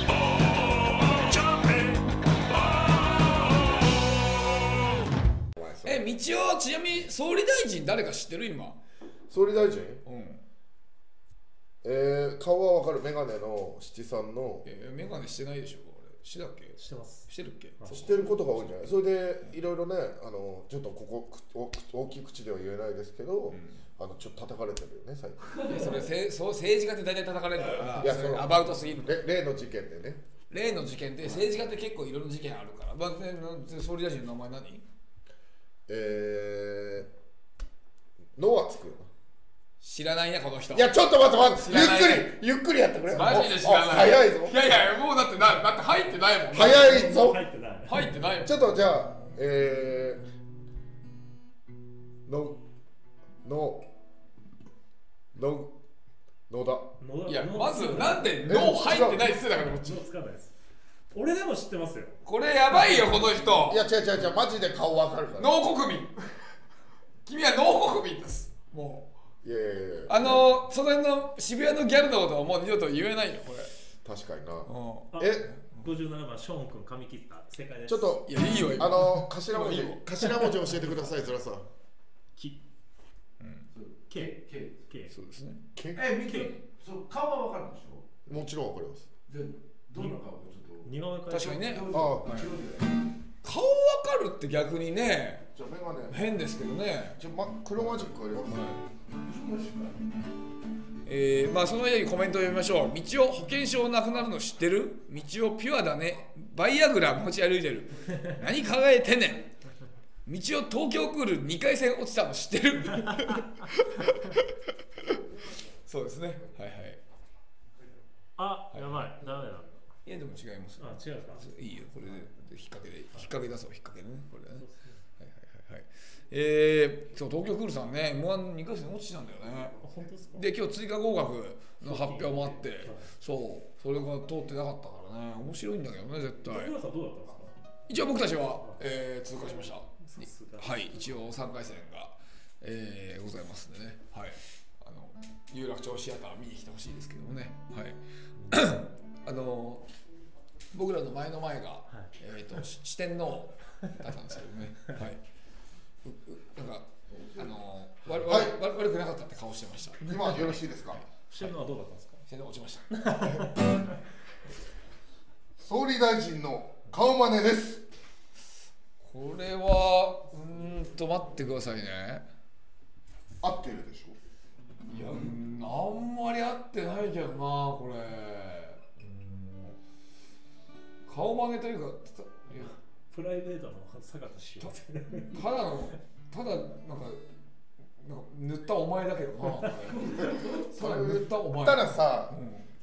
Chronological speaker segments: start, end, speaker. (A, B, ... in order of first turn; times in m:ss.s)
0:00.3-0:02.0 A
0:02.7-0:03.4 A
0:05.6-0:06.0 B
0:05.8-0:08.8 A
0:09.3-0:10.0 B
0:10.0-0:10.4 A
0:11.8-0:14.6 B
0:14.6-0:18.5 A
0:16.8-0:17.3 C
0:17.8-0:18.1 C
0:18.0-0:25.7 B
0:25.6-0:29.2 A
0:28.0-0:30.2 B
0:30.5-0:34.8 A
0:35.9-0:37.1 B
0:38.4-0:39.1 B
0:39.8-0:40.9 A
0:40.7-0:44.6 B
0:41.5-0:42.3 A
0:43.1-0:47.0 A
0:46.5-0:47.4 B
0:46.7-0:48.0 C
0:47.8-0:48.6 A
0:48.4-0:50.2 B
0:52.2-0:52.6 B
0:53.4-0:53.8 B
0:55.3-0:55.7 B
0:56.5-0:56.9 B
0:57.0-0:58.5 C
0:57.3-1:00.0 A
0:58.4-0:59.3 B
0:59.5-1:00.5 C
1:01.1-1:02.2 C
1:02.2-1:03.8 A
1:03.6-1:05.5 B
1:05.4-1:06.5 A
1:07.2-1:09.1 A
1:09.4-1:10.4 B
1:10.1-1:13.7 A
1:14.0-1:15.5 B
1:14.6-1:15.9 A
1:15.1-1:18.2 C
1:17.9-1:21.7 B
1:18.2-1:20.5 A
1:22.4-1:22.6 C
1:23.4-1:23.7 A
1:23.8-1:24.8 D
1:24.1-1:25.1 C
1:25.1-1:25.6 A
1:25.7-1:26.1 B
1:26.0-1:28.2 D
1:26.2-1:26.6 C
1:28.2-1:29.1 B
1:29.3-1:30.9 D
1:30.0-1:30.2 C
1:30.8-1:31.8 C
1:31.3-1:32.5 A
1:31.7-1:33.0 D
1:31.9-1:32.3 B
1:33.4-1:35.5 A
1:35.5-1:36.2 B
1:36.1-1:37.2 A
1:37.2-1:38.7 B
1:38.4-1:38.8 A
1:39.1-1:40.0 D
1:41.0-1:49.4 A
1:50.2-1:54.5 A
1:55.8-1:57.0 A
1:58.4-1:59.7 C
1:58.7-1:59.0 A
2:00.0-2:04.6 A
2:00.8-2:01.5 C
2:04.6-2:05.0 C
2:05.2-2:09.8 A
2:09.8-2:10.4 C
2:10.3-2:16.7 A
2:11.8-2:13.1 C
2:16.4-2:17.6 C
2:17.9-2:29.9 A
2:20.0-2:20.8 C
2:30.7-2:35.2 A
2:36.0-2:41.3 A
2:38.2-2:38.6 B
2:40.0-2:41.0 B
2:41.3-2:42.2 C
2:42.3-2:43.5 A
2:43.1-2:43.7 C
2:45.6-2:47.8 B
2:49.0-2:52.2 A
2:53.4-2:54.2 B
2:54.9-2:59.7 A
3:01.1-3:02.7 A
3:03.1-3:05.4 C
3:05.3-3:07.2 A
3:08.0-3:12.7 A
3:10.0-3:12.4 B